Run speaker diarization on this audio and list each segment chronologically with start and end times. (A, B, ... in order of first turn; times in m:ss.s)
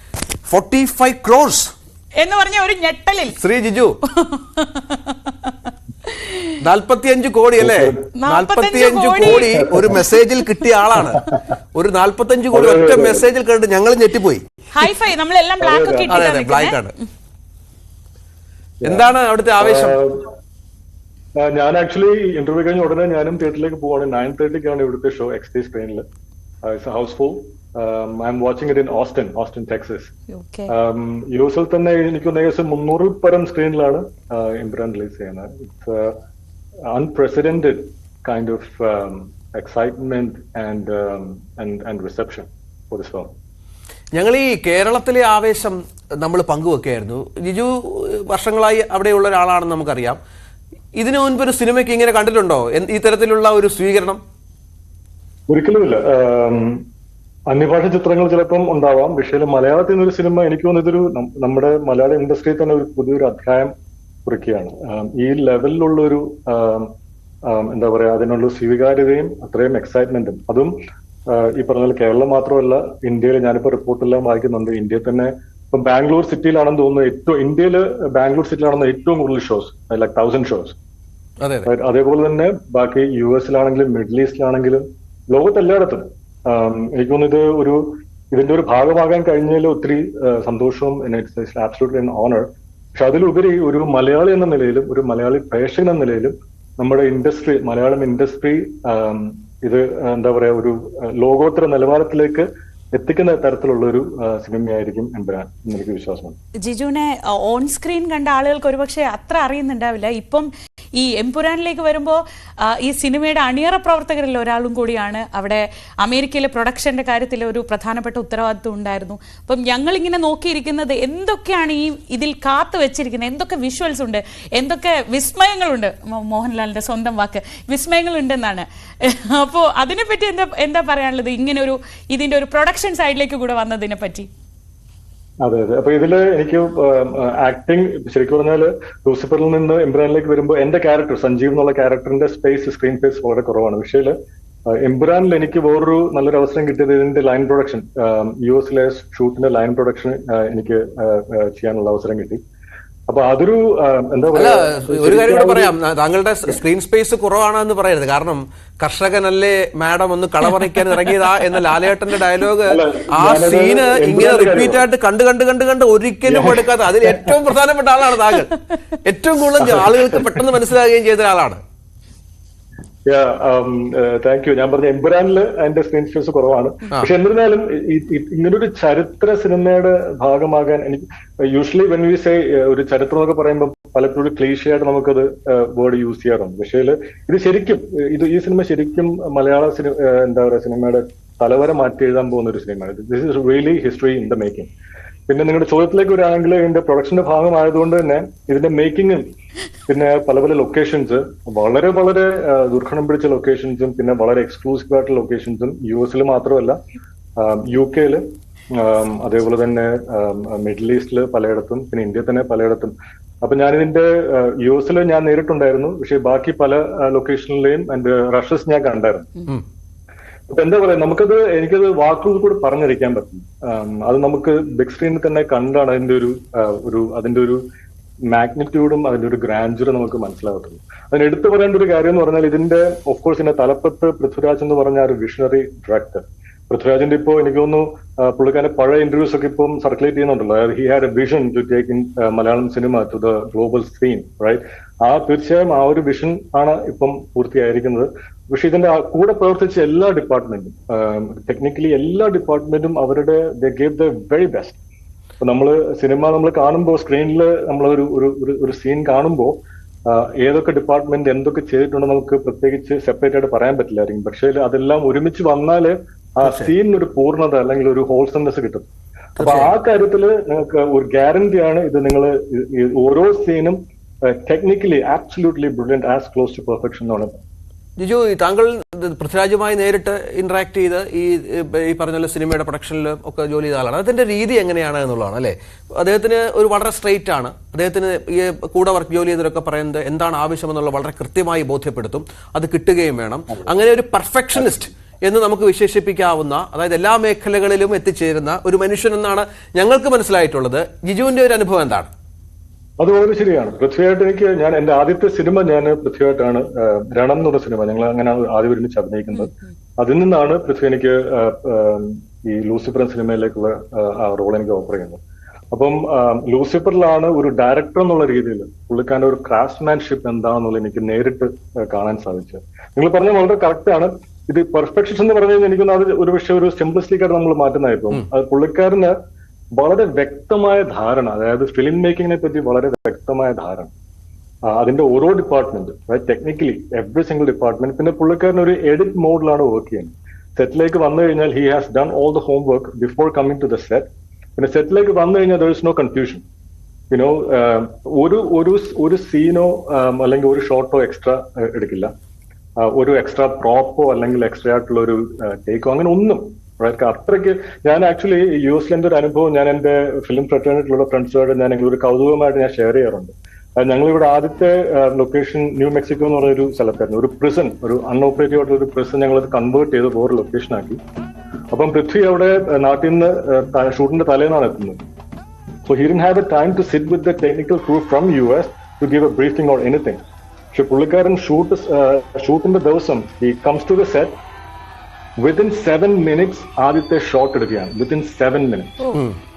0:00.5-0:01.7 A
0:02.2-0:03.4 B
0:03.4-0:04.0 A
0:04.1-0:06.5 B
0:06.6-0:14.4 A
0:07.6-0:08.0 C
0:08.2-0:10.5 B
0:09.4-0:10.0 C
0:11.0-0:11.3 C
0:12.5-0:13.2 C
0:14.7-0:17.0 B
0:15.6-0:16.2 C
0:16.1-0:16.9 A
0:18.8-0:20.3 C
0:18.8-0:20.0 A
0:21.4-0:26.0 C
0:26.6-0:30.1 C
0:30.3-0:30.7 B
0:30.7-0:36.2 C
0:36.9-0:43.3 C
0:44.2-0:50.2 A
0:51.0-0:54.2 A
0:55.5-0:56.8 C
0:57.5-1:03.7 C
1:04.3-1:06.9 C
1:07.5-1:10.7 C
1:11.3-1:20.8 C
1:21.4-1:21.7 A
1:21.7-1:46.4 C
1:46.6-2:14.3 B
2:15.4-2:24.1 C
2:24.7-2:32.4 C
2:33.1-2:35.8 C
2:34.4-2:51.6 A
2:42.7-2:44.8 C
2:46.3-2:47.4 C
2:49.6-2:50.5 C
2:53.1-3:14.7 C
3:15.3-3:19.3 C
3:19.9-3:26.8 C
3:27.4-3:39.3 C
3:40.5-3:47.6 C
3:48.3-4:14.8 C
4:15.4-4:19.6 C
4:20.1-4:37.4 C
4:26.4-4:26.7 A
4:29.4-4:29.7 A
4:38.0-5:02.1 A
5:03.0-5:15.2 C
5:15.7-5:29.2 C
5:29.8-5:33.9 C
5:34.7-5:46.4 C
5:47.1-5:52.1 C
5:52.8-6:11.0 C
6:11.7-6:15.0 C
6:15.9-6:20.2 C
6:20.7-6:24.4 C
6:25.4-6:29.0 C